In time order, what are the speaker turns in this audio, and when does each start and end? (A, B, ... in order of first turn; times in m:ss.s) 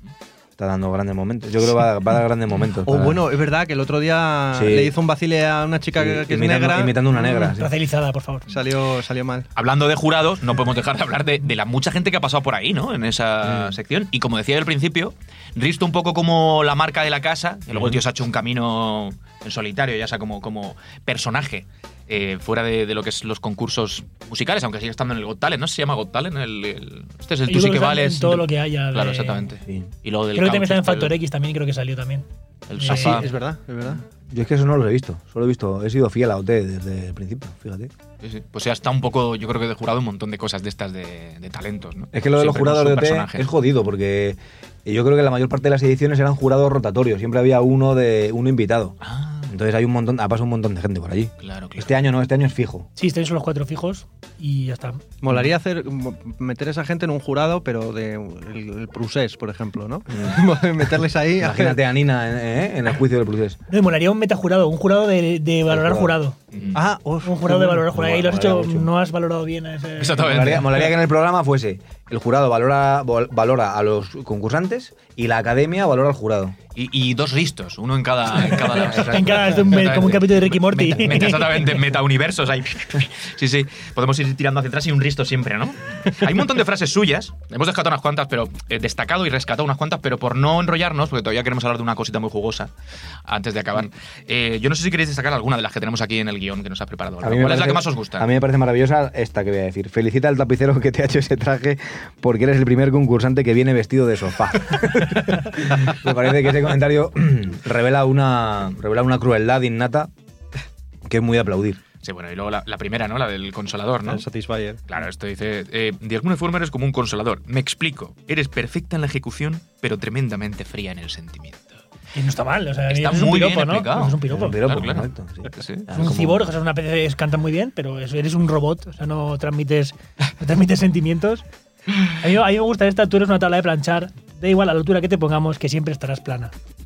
0:00.6-0:03.2 A
0:02.8-0:07.4 B
0:04.5-0:04.9 A
0:05.9-0:07.7 A
0:07.2-0:08.4 C
0:08.5-0:09.5 B
0:09.6-0:31.1 D
0:13.4-0:13.7 A
0:17.7-0:18.0 A
0:27.5-0:29.4 C
0:30.4-0:33.2 C
0:32.7-0:33.3 D
0:32.8-0:34.0 B
0:34.3-0:37.9 A
0:38.2-0:43.5 D
0:42.1-0:52.9 A
0:49.0-0:49.5 D
0:51.4-0:51.9 D
0:53.0-0:55.0 C
0:55.2-1:01.8 B
1:00.1-1:00.4 A
1:01.4-1:03.6 A
1:03.7-1:06.4 C
1:05.7-1:06.2 A
1:06.5-1:06.8 D
1:06.7-1:07.8 B
1:07.2-1:10.5 C
1:07.6-1:08.9 A
1:10.0-1:10.9 D
1:10.1-1:16.6 A
1:16.7-1:32.7 D
1:18.4-1:20.2 A
1:18.8-1:21.6 C
1:33.3-1:38.3 D
1:37.2-1:50.1 A
1:51.1-1:51.8 A
1:52.0-1:54.2 D
1:54.0-1:54.8 B
1:54.9-2:01.8 D
2:02.1-2:04.6 C
2:02.9-2:05.9 D
2:04.3-2:06.5 A
2:05.9-2:11.4 C
2:12.0-2:16.5 C